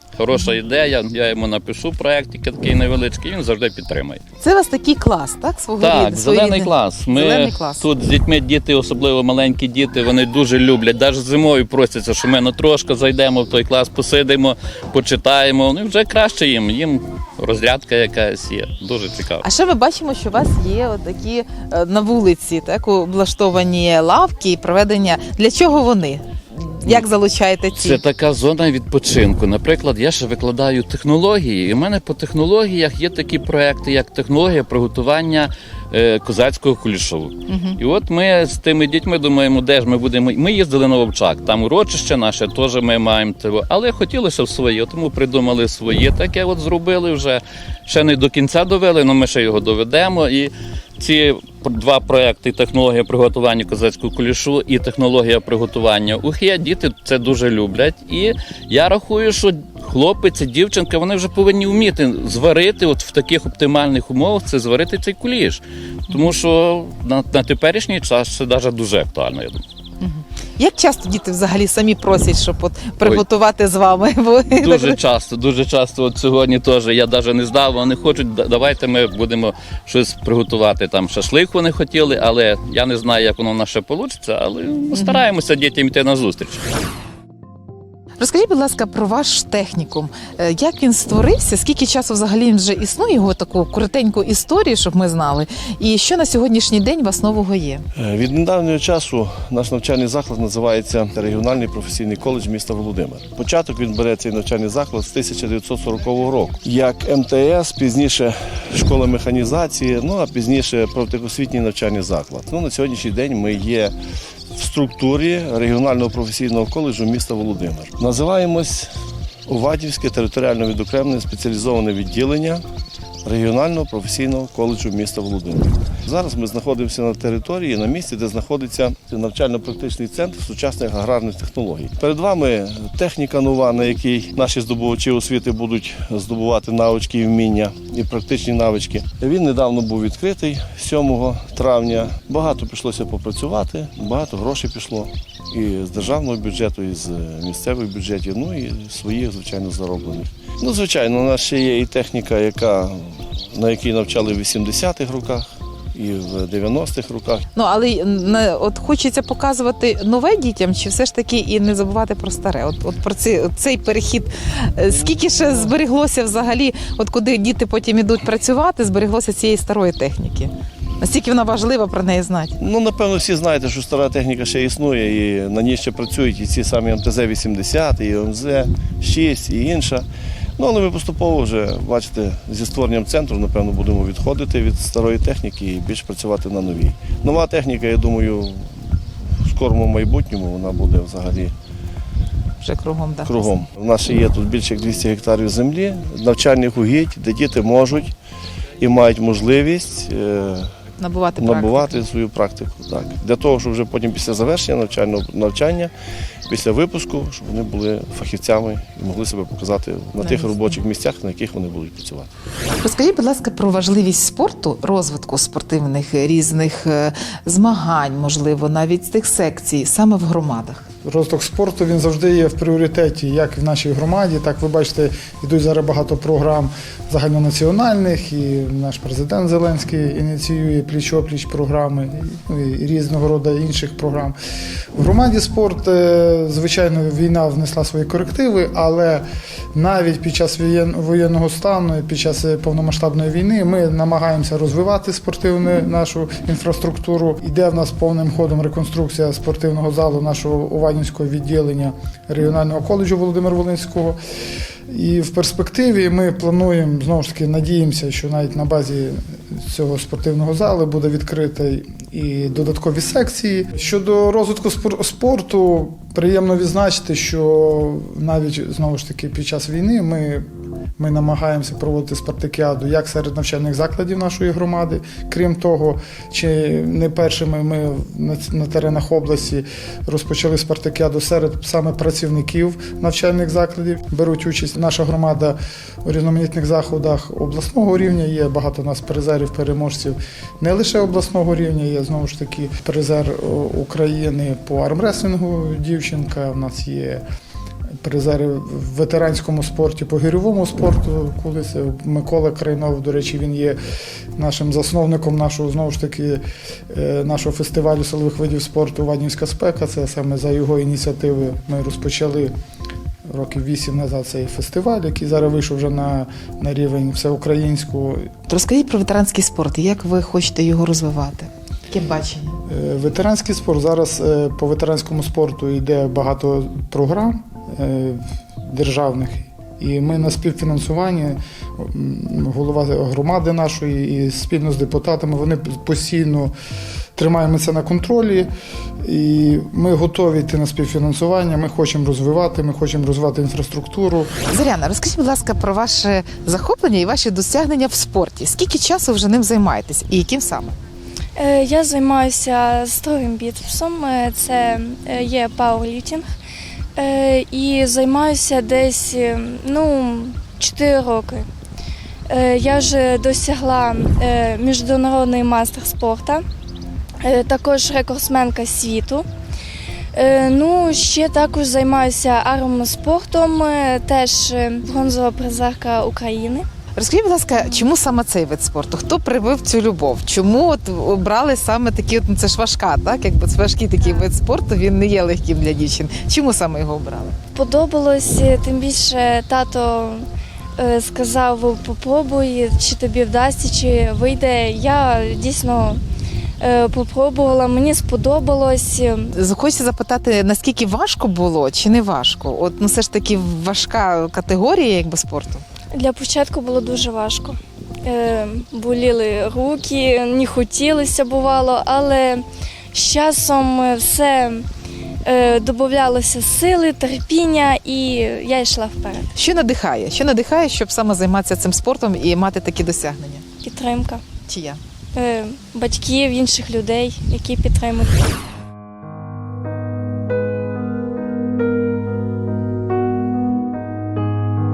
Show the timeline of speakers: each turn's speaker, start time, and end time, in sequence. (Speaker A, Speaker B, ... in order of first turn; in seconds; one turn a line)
Speaker A: 0.2-4.2
Speaker B: 4.4-7.9
Speaker A: 5.8-19.4
Speaker B: 19.4-28.0
Speaker A: 27.8-69.6
Speaker B: 37.5-37.8
Speaker B: 70.0-75.0
Speaker A: 74.5-86.6
Speaker B: 84.9-85.2
Speaker B: 88.2-97.8
Speaker C: 97.9-113.9
Speaker C: 114.5-118.9
Speaker C: 119.5-122.6
Speaker C: 123.2-157.4
Speaker B: 157.5-172.6
Speaker C: 165.1-165.6
Speaker C: 172.6-180.1
Speaker C: 180.6-191.5
Speaker B: 192.6-193.7
Speaker C: 193.2-198.1
Speaker C: 198.8-200.8
Speaker B: 201.0-202.0
Speaker C: 201.4-205.9
Speaker C: 206.5-212.3
Speaker B: 210.2-210.7
Speaker B: 212.8-220.8
Speaker D: 221.0-234.3
Speaker D: 235.0-254.2
Speaker D: 254.9-297.2
Speaker D: 298.0-303.8
Speaker D: 304.4-312.5
Speaker D: 313.3-318.3
Speaker B: 318.5-322.6
Speaker D: 322.7-336.5
Speaker D: 337.1-338.5
Speaker D: 339.0-344.3
Speaker B: 344.5-350.8
Speaker E: 351.4-356.2
Speaker E: 356.9-361.5
Speaker E: 362.3-366.4
Speaker E: 367.2-369.2
Speaker E: 370.1-376.6
Speaker B: 376.9-387.4
Speaker E: 387.5-390.2
Speaker E: 390.8-396.0
Speaker E: 396.6-399.3
Speaker B: 399.3-405.6
Speaker E: 405.9-414.6
Speaker E: 415.2-419.3
Speaker B: 419.3-423.5
Speaker E: 423.6-424.2
Speaker B: 424.5-424.8
Speaker E: 425.1-428.2